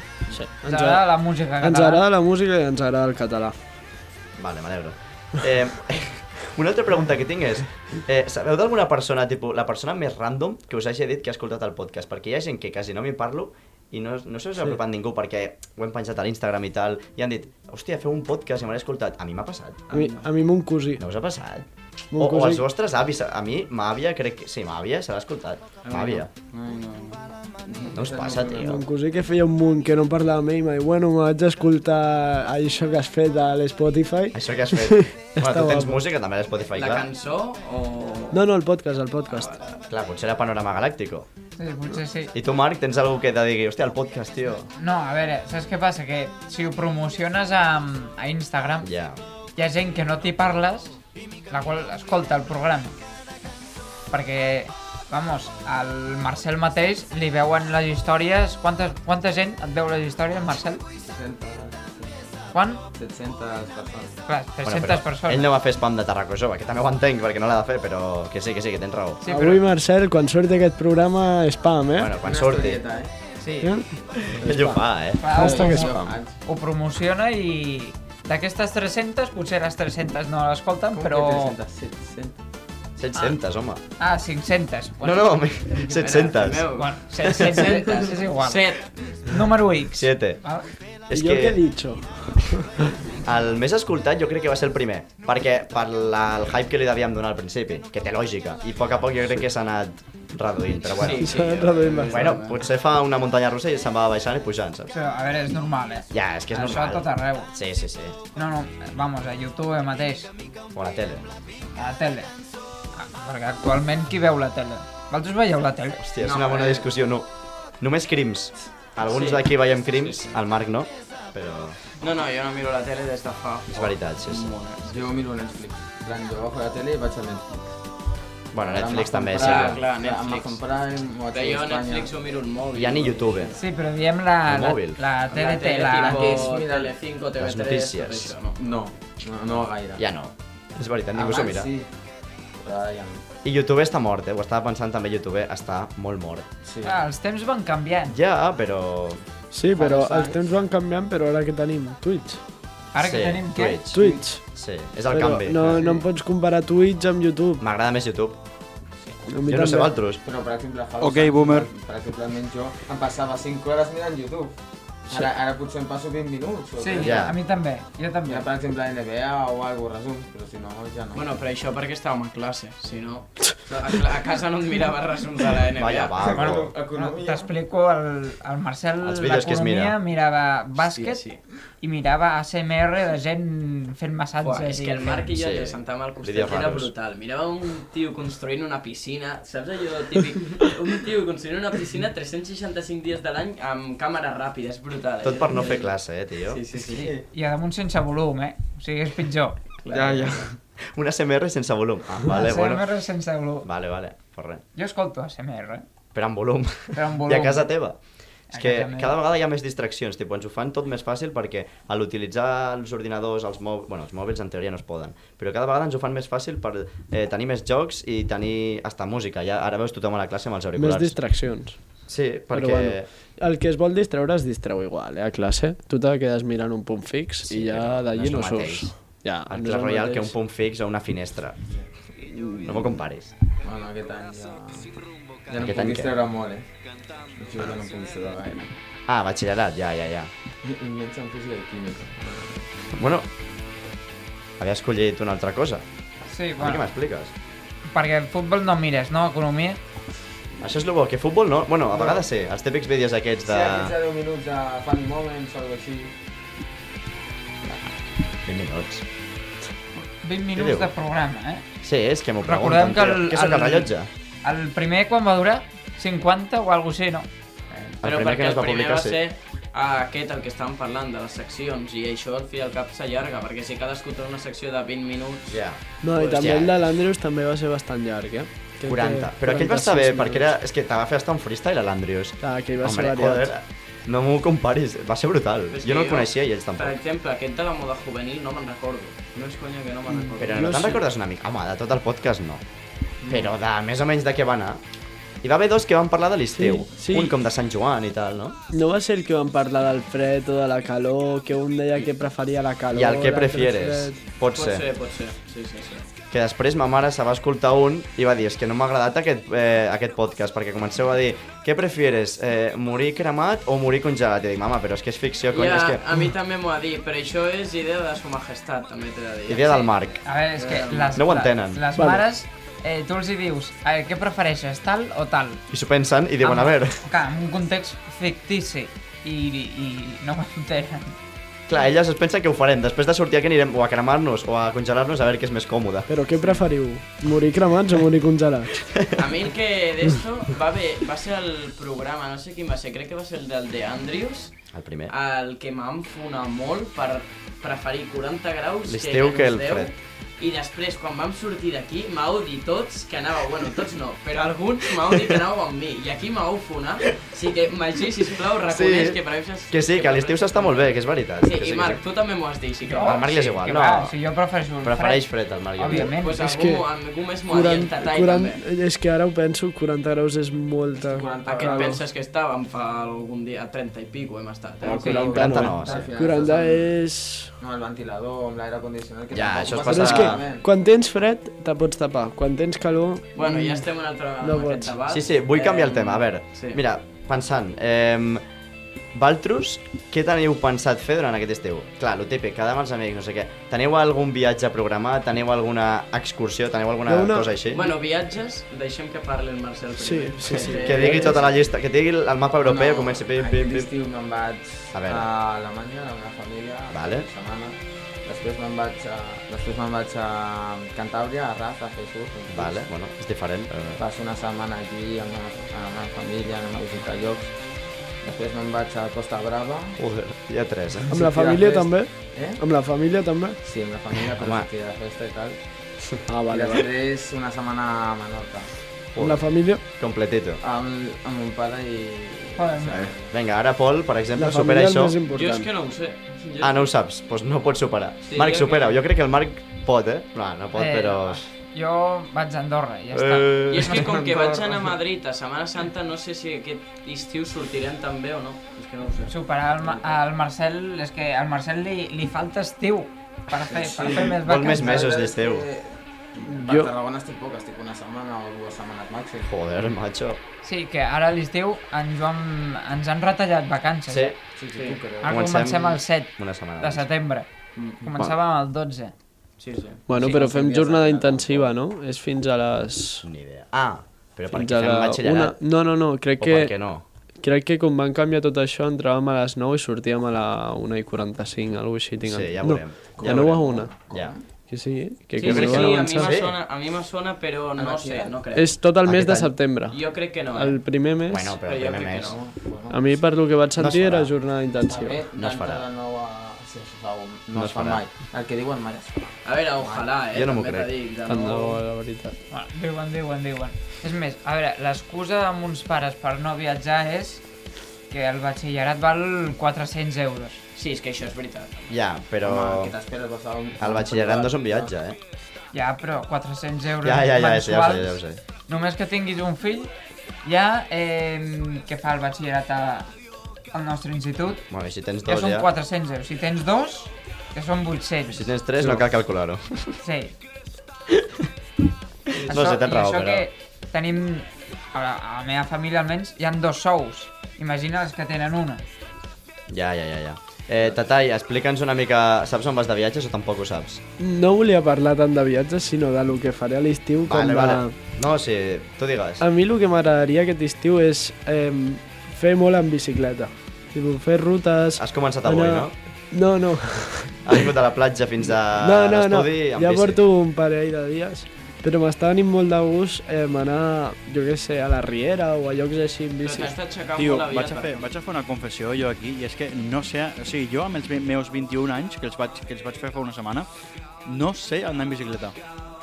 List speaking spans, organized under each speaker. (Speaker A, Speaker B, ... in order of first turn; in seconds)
Speaker A: 0.3-1.1, 1.6-3.5, 19.9-21.0, 22.1-22.6, 28.6-36.0, 38.3-39.5, 69.2-72.1, 73.6-74.8, 75.3-75.9, 91.1-92.9, 101.0-102.3, 149.5-152.4, 153.9-154.4, 155.1-157.6, 159.3-159.9, 220.8-221.8, 222.5-230.3, 232.2-232.9, 276.0-280.5, 282.4-283.5, 290.1-291.0, 296.6-297.3, 298.7-304.1, 321.9-322.2, 336.1-338.8, 365.9-366.8, 367.5-372.0, 374.9-377.5, 379.8-383.9, 384.4-384.9, 397.0-397.5, 400.0-401.3, 421.1-423.6, 426.3-426.9, 429.2-429.8, 434.3-435.7, 456.4-456.9, 470.1-473.2, 474.5-476.7, 477.4-483.9, 484.6-486.3, 488.5-490.0, 490.5-491.6, 492.9-495.2, 501.3-502.3, 544.2-547.9, 549.4-557.7, 558.8-566.7
Speaker B: 0.6-2.0, 41.6-42.3, 44.8-48.9, 49.6-51.0, 51.5-52.9, 54.1-60.8, 62.5-62.8, 64.2-65.5, 69.2-69.6, 73.4-73.7, 75.2-81.5, 84.0-85.4, 86.8-90.7, 104.9-107.5, 108.3-110.3, 111.7-112.3, 112.9-116.0, 133.6-136.5, 146.8-148.2, 152.9-153.8, 166.8-168.5, 176.3-181.2, 181.8-185.3, 197.3-199.6, 202.3-203.7, 204.8-205.8, 206.9-207.7, 208.5-209.1, 246.3-246.9, 247.9-249.8, 260.0-261.6, 262.4-263.9, 264.4-267.3, 320.2-325.6, 326.4-331.1, 362.8-366.4, 374.9-375.3, 432.6-433.1, 440.7-444.0, 449.3-455.1, 460.6-464.3, 465.2-469.1, 502.5-507.4, 508.1-510.6, 515.7-519.9, 520.4-523.1, 523.7-524.6, 525.2-528.5, 530.0-530.3, 532.4-538.8
Speaker C: 4.4-19.8, 21.0-26.3, 27.9-28.8, 34.3-37.1, 39.9-41.3, 42.3-44.7, 48.8-49.2, 64.6-69.2, 72.0-72.8, 74.1-75.3, 83.0-83.8, 85.0-86.7, 89.9-90.4, 91.1-91.6, 93.2-101.4, 102.1-104.9, 106.1-108.2, 110.7-111.2, 116.0-117.3, 117.8-121.8, 123.7-124.5, 128.5-129.8, 132.7-133.6, 134.4-135.0, 137.4-138.3, 139.9-141.7, 143.4-146.4, 148.1-149.2, 153.0-155.9, 157.6-158.4, 159.4-160.2, 167.0-167.3, 175.8-176.7, 179.0-179.9, 185.3-186.9, 195.2-196.6, 200.8-202.9, 203.6-204.6, 206.1-208.0, 208.5-221.2, 222.1-223.1, 227.5-228.9, 229.4-231.6, 232.6-233.3, 235.5-236.1, 239.1-240.3, 242.9-243.3, 244.6-245.8, 246.6-247.3, 250.6-253.9, 258.4-259.0, 260.5-260.9, 261.8-264.1, 268.0-269.2, 275.5-276.7, 278.9-287.0, 290.4-292.6, 293.3-294.8, 295.4-298.6, 302.9-304.9, 306.3-316.0, 319.5-320.2, 321.1-321.8, 325.7-327.0, 331.7-336.1, 338.9-339.2, 344.7-345.1, 348.9-349.9, 355.1-355.4, 358.7-362.0, 363.0-364.1, 364.8-366.1, 375.3-376.0, 379.3-380.4, 385.1-388.4, 389.1-397.9, 400.7-403.9, 404.9-405.3, 406.9-407.3, 412.5-414.0, 420.0-421.1, 424.4-424.7, 429.1-430.6, 433.3-435.2, 436.6-441.4, 443.1-444.1, 454.2-455.7, 459.4-460.4, 464.1-464.4, 465.2-467.1, 473.2-475.6, 476.4-477.0, 482.2-484.3, 485.4-486.6, 489.0-489.5, 491.3-492.4, 493.8-494.3, 495.3-495.8, 497.5-498.0, 500.3-500.9, 511.9-512.9, 513.8-515.2, 517.0-518.4, 524.7-525.7, 528.3-530.0, 532.4-533.5, 539.7-544.0, 547.2-549.4, 555.0-555.9, 557.4-560.2
Speaker D: 19.9-20.3, 25.8-27.9, 36.7-38.5, 39.2-39.7, 85.8-88.9, 100.9-102.6, 116.2-116.9, 119.0-120.4, 122.0-125.2, 129.3-130.6, 131.3-133.5, 135.3-138.6, 171.1-176.2, 180.9-181.4, 184.4-195.9, 196.5-197.1, 199.8-200.5, 267.7-275.6, 276.1-276.6, 285.7-290.8, 304.5-306.1, 315.5-319.9, 320.6-321.2, 339.1-344.6, 345.1-363.6, 366.2-368.6, 371.4-375.3, 383.4-386.8, 397.7-401.6, 435.3-436.9, 438.2-438.9, 443.7-449.3, 469.6-470.0, 485.4-490.8, 491.6-492.4, 499.4-501.8, 510.7-512.0, 566.4-568.1
Speaker E: 27.7-28.8, 61.0-62.2, 62.9-64.2, 72.2-73.1, 75.3-76.3, 80.9-82.4, 124.8-127.7, 128.6-132.1, 135.8-136.9, 138.6-140.0, 141.1-141.9, 142.6-143.2, 146.6-147.0, 149.7-150.4, 155.8-156.0, 160.2-164.5, 165.1-167.3, 168.2-171.2, 176.2-177.5, 196.7-197.2, 199.9-200.5, 233.6-234.9, 235.5-236.7, 237.3-238.7, 240.6-242.7, 251.9-252.2, 253.4-256.1, 371.0-372.0, 374.8-377.0, 377.6-380.6, 400.7-401.4, 402.6-412.8, 414.0-417.5, 418.2-420.0, 421.1-422.6, 423.6-425.6, 426.5-428.7, 430.6-433.3, 444.0-445.0, 453.7-459.5, 464.6-465.8, 470.1-471.7, 483.1-484.4, 487.8-488.5, 492.2-493.1, 494.8-500.1, 512.4-514.9
Speaker F: 161.0-161.7, 567.1-573.7, 574.2-575.5